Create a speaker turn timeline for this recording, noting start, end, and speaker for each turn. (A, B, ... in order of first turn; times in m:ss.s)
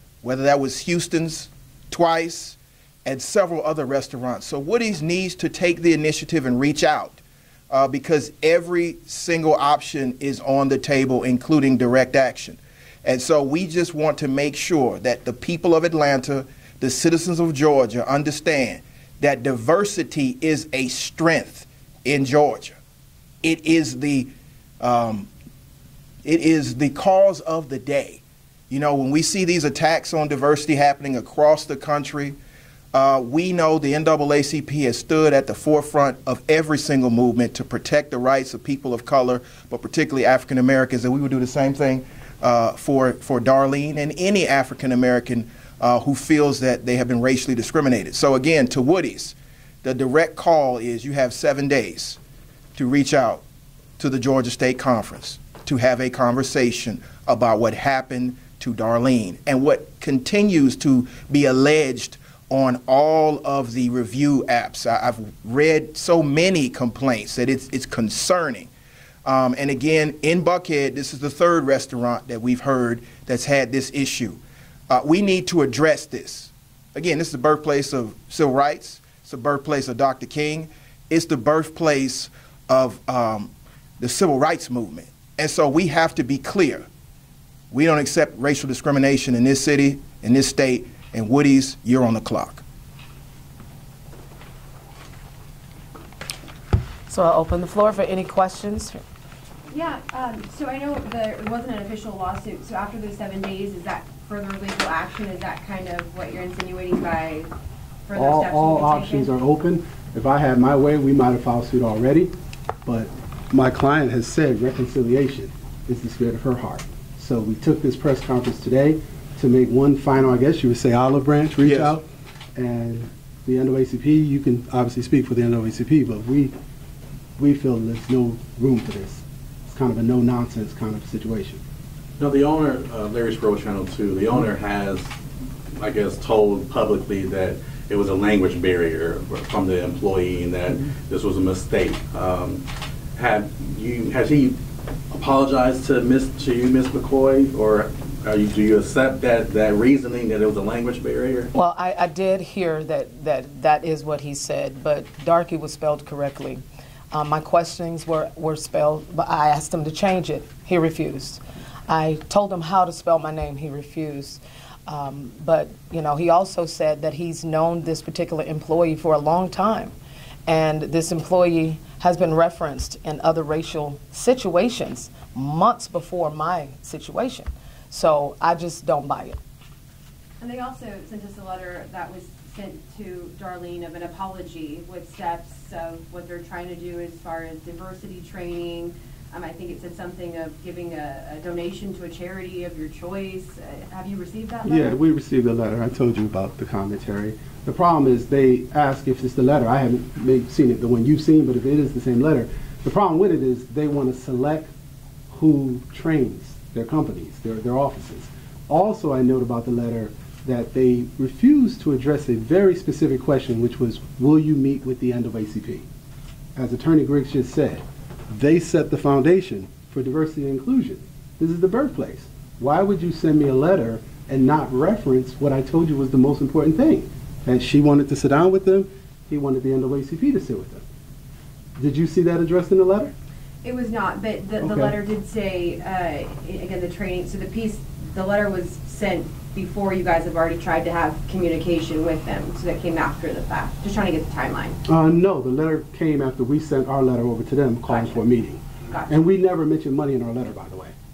0:00.2-0:22.8 A
0:23.4-0:25.3 A
0:26.2-0:32.4 A
0:32.9-0:52.2 A
0:52.8-0:53.4 A
0:54.0-1:08.7 A
1:09.2-1:26.9 A
1:27.7-1:32.6 A
1:37.1-1:39.0 B
1:39.7-1:47.5 C
1:48.1-1:49.3 C
1:48.1-1:52.3 D
1:52.8-2:06.5 D
2:01.6-2:02.0 A
2:07.4-2:11.6 D
2:12.2-2:15.1 E
2:15.8-2:22.6 E
2:23.2-2:24.6 E
2:25.1-2:31.5 E
2:31.5-2:49.9 B
2:50.5-2:59.4 B
3:00.4-3:15.0 C
3:14.6-3:24.7 D
3:25.3-3:35.8 D
3:36.6-3:50.8 D
3:51.8-3:53.1 D
3:53.6-4:04.8 C
3:54.6-3:55.0 D
4:04.9-4:10.9 D
4:07.9-4:08.2 C
4:08.9-4:09.2 C